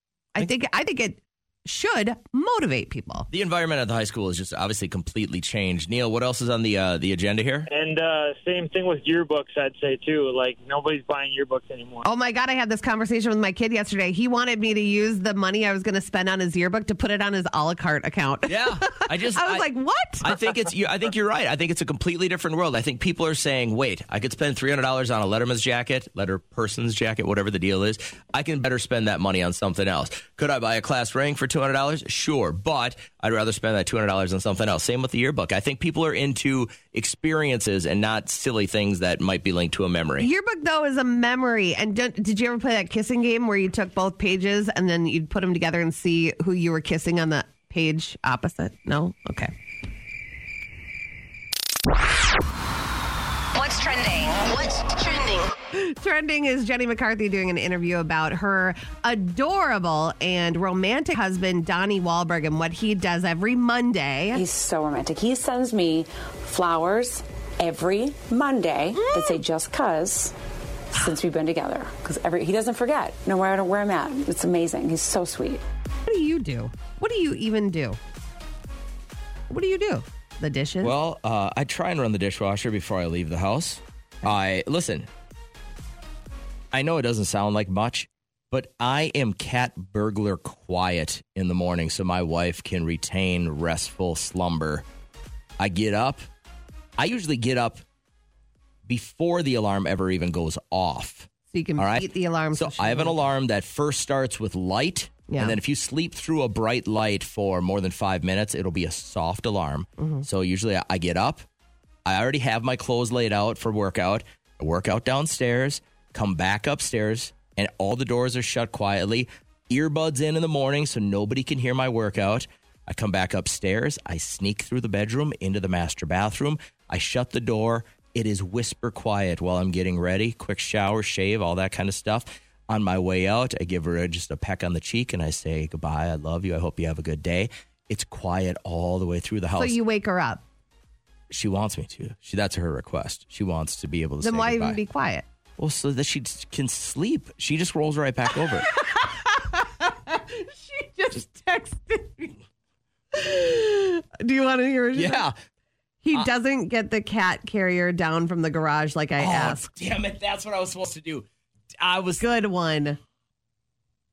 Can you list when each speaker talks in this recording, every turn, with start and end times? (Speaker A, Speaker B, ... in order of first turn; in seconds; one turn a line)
Speaker A: 0.3-3.3
Speaker B: 3.3-7.7
Speaker C: 7.7-12.1
Speaker A: 12.0-20.5
Speaker B: 18.5-19.6
Speaker B: 20.2-40.3
Speaker A: 40.2-49.5
Speaker D: 53.5-55.5
Speaker A: 55.7-64.4
Speaker E: 64.3-70.3
Speaker A: 69.0-69.4
Speaker E: 70.9-75.6
Speaker A: 76.0-78.0
Speaker A: 79.5-80.9
Speaker B: 80.8-85.1
Speaker B: 86.7-94.8
Speaker B: 95.6-96.3
Speaker B: 97.0-97.8
Speaker B: 98.8-111.4
Speaker A: 101.5-103.3
Speaker A: 105.3-105.6
Speaker A: 110.0-110.2
Speaker B: 112.0-139.8
Speaker A: 139.6-140.4
Speaker B: 141.3-144.8
Speaker A: 144.2-145.2
Speaker B: 145.6-148.7
Speaker A: 148.6-152.3
Speaker A: 153.1-155.2
Speaker B: 154.9-155.3
Speaker A: 156.0-159.7
Speaker B: 159.2-161.3
Speaker B: 161.8-162.2
Speaker A: 162.2-163.0